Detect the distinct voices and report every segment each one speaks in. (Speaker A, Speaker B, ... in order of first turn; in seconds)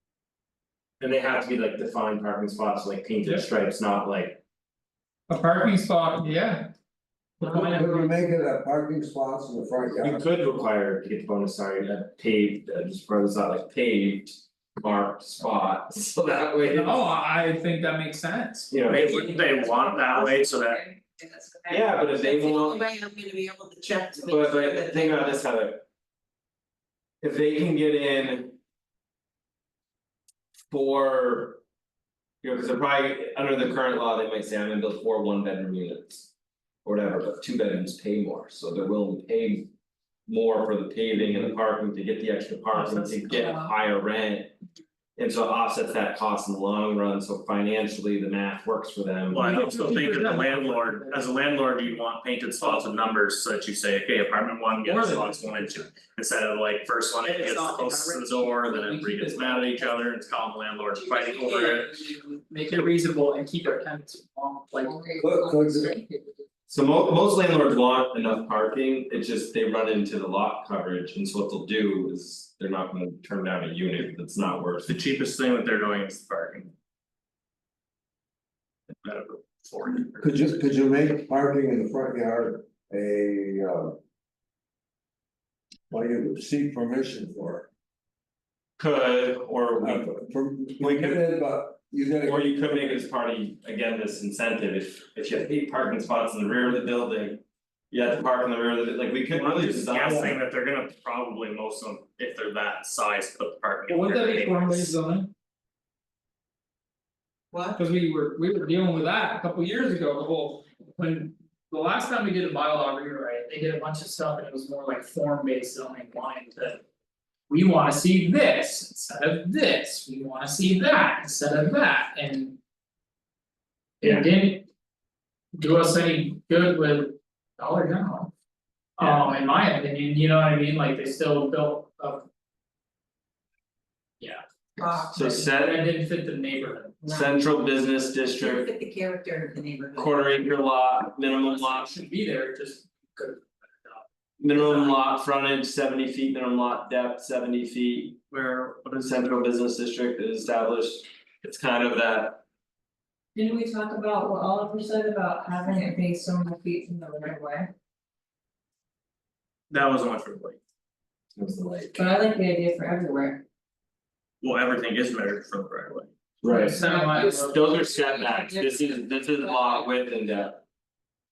Speaker A: 1.0-4.4, 10.0-17.1, 18.7-19.3, 20.1-20.4, 21.7-22.9, 24.2-25.8, 27.2-28.6, 30.7-31.6, 32.4-36.3, 36.9-39.7, 40.3-44.5, 45.2-49.5, 66.7-75.0, 88.8-90.1, 90.8-91.2, 92.2-100.4, 135.1-135.9, 137.1-138.7, 139.9-141.9, 144.4-148.2, 149.0-152.4, 161.4-162.2, 166.4-170.6
Speaker B: 5.3-6.7, 7.4-8.1, 16.7-19.4, 42.7-43.7, 49.3-51.3, 52.6-52.9, 54.8-55.9, 57.2-59.9, 61.1-65.1, 103.9-105.3, 107.8-116.8, 117.5-122.6, 124.0-124.7, 125.5-128.3, 129.0-132.3, 134.2-137.0, 141.3-145.0, 166.5-167.6
Speaker C: 7.4-10.3, 65.2-66.0, 80.2-84.0, 85.9-87.7, 89.8-93.0
Speaker D: 18.9-20.9, 49.3-62.0, 74.9-76.7, 79.0-80.6, 99.3-105.0, 148.3-149.2, 159.7-160.6, 164.4-166.1
Speaker E: 19.1-25.3, 64.8-66.4, 107.5-107.8, 134.8-135.2, 137.0-137.4, 138.4-140.2, 153.3-157.7, 161.9-163.4, 166.7-169.9